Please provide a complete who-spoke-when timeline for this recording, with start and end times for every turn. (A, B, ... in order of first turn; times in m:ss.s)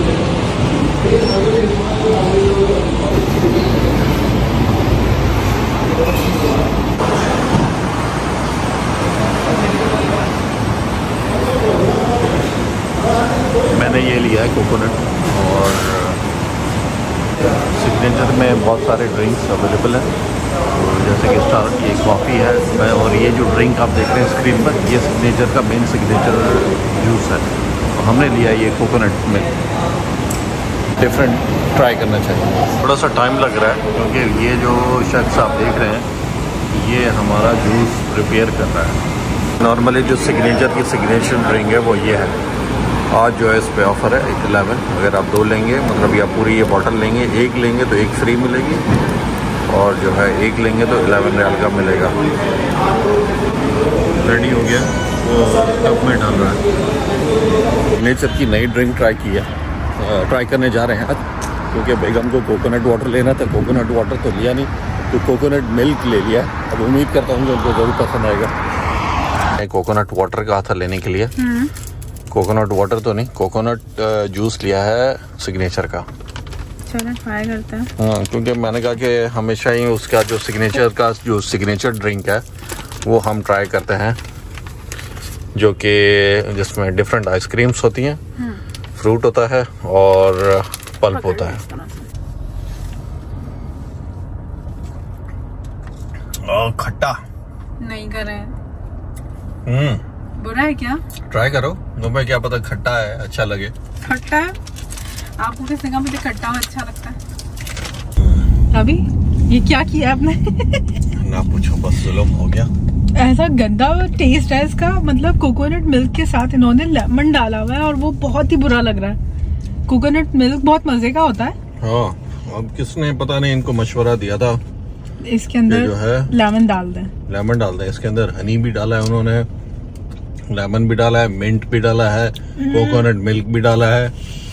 0:13.7-0:16.2 A
0:17.7-0:20.1 A
0:20.7-0:29.5 A
0:31.0-0:36.1 A
0:36.7-0:39.0 A
0:39.6-0:42.3 A
0:43.1-0:48.8 A
0:49.7-0:52.2 A
0:54.1-0:56.6 A
0:57.9-1:08.5 A
1:09.5-1:11.3 A
1:11.4-1:11.7 B
1:12.3-1:16.1 A
1:16.9-1:17.9 B
1:18.0-1:22.4 A
1:23.0-1:24.2 A
1:25.5-1:28.2 A
1:29.0-1:31.6 A
1:31.1-1:32.1 B
1:36.4-1:37.2 A
1:37.8-1:38.5 B
1:39.6-1:40.0 A
1:40.4-1:41.0 B
1:41.3-1:43.7 A
1:44.0-1:44.6 B
1:45.4-1:47.2 B
1:48.2-1:48.5 A
1:48.7-1:51.0 B
1:51.2-1:52.7 A
1:53.1-1:59.2 B
1:59.9-2:01.5 B
2:01.8-2:04.6 A
2:05.2-2:07.1 B
2:05.7-2:06.3 A
2:07.3-2:09.5 A
2:10.5-2:14.1 A
2:12.6-2:13.0 B